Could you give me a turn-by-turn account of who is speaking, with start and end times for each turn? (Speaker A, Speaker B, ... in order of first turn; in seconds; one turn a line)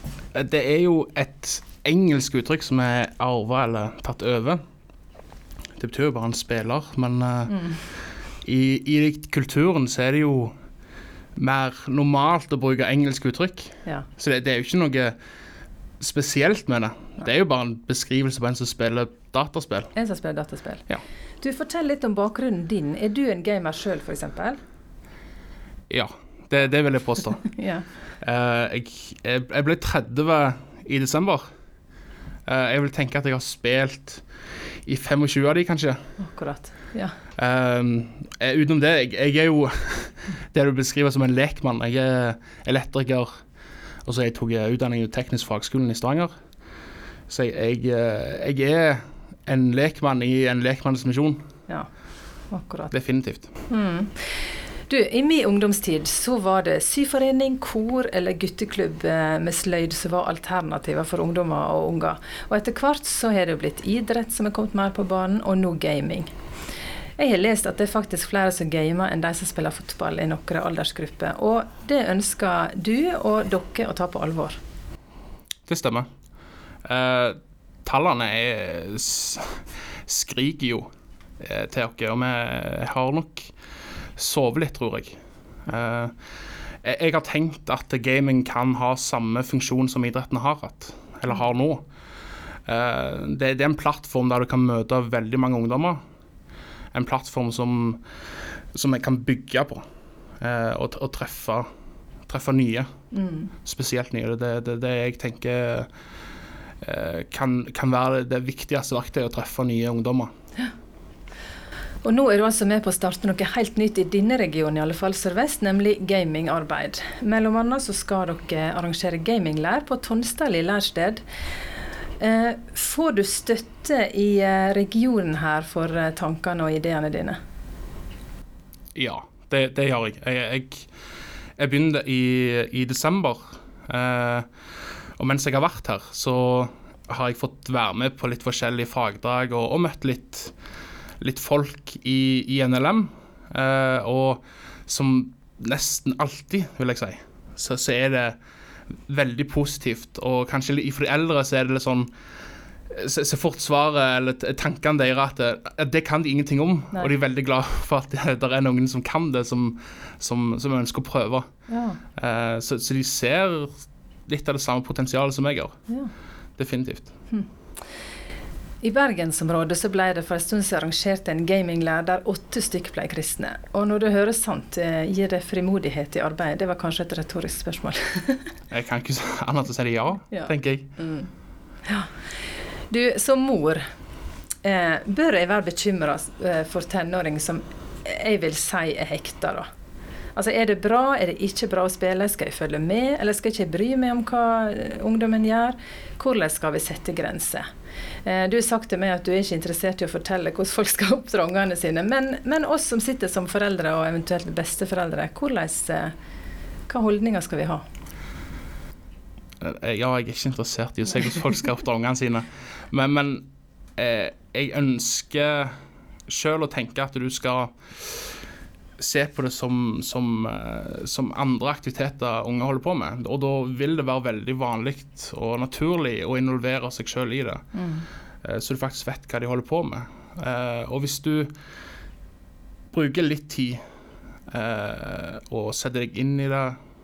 Speaker A: 0.3-4.6
Speaker A: 5.8-7.8
Speaker A: 8.4-10.5
Speaker A: 11.4-15.2
Speaker A: 16.0-19.9
Speaker B: 19.9-20.9
Speaker B: 21.4-24.6
Speaker A: 25.9-27.5
Speaker B: 27.4-27.9
Speaker A: 28.2-31.4
Speaker A: 32.5-34.2
Speaker A: 34.9-36.1
Speaker B: 36.2-37.2
Speaker A: 37.4-43.3
Speaker A: 44.1-46.3
Speaker A: 47.3-51.4
Speaker B: 52.5-52.9
Speaker A: 52.9-53.5
Speaker B: 53.7-66.3
Speaker B: 67.2-74.6
Speaker A: 75.7-76.1
Speaker A: 76.8-80.9
Speaker A: 81.4-83.5
Speaker A: 84.2-86.2
Speaker A: 86.8-91.9
Speaker A: 92.7-96.0
Speaker A: 96.9-98.0
Speaker A: 98.7-99.8
Speaker A: 100.4-101.7
Speaker A: 102.3-102.9
Speaker B: 103.1-103.5
Speaker A: 103.7-105.9
Speaker A: 106.8-110.3
Speaker B: 112.0-121.2
Speaker B: 122.2-127.4
Speaker A: 128.9-130.9
Speaker A: 131.6-134.5
Speaker A: 135.2-140.5
Speaker A: 141.2-148.4
Speaker A: 149.1-152.1
Speaker A: 152.9-161.5
Speaker B: 161.7-162.0
Speaker A: 162.2-165.8
Speaker A: 166.6-167.1
Speaker B: 168.8-178.5
Speaker A: 178.7-181.0
Speaker B: 180.3-181.3
Speaker B: 182.9-183.8
Speaker B: 184.6-189.7
Speaker B: 190.3-197.6
Speaker B: 198.2-206.1
Speaker B: 206.9-207.8
Speaker A: 209.6-215.8
Speaker A: 216.3-218.4
Speaker A: 219.0-227.7
Speaker B: 227.7-228.1
Speaker A: 228.4-231.5
Speaker A: 232.9-233.8
Speaker A: 234.5-236.8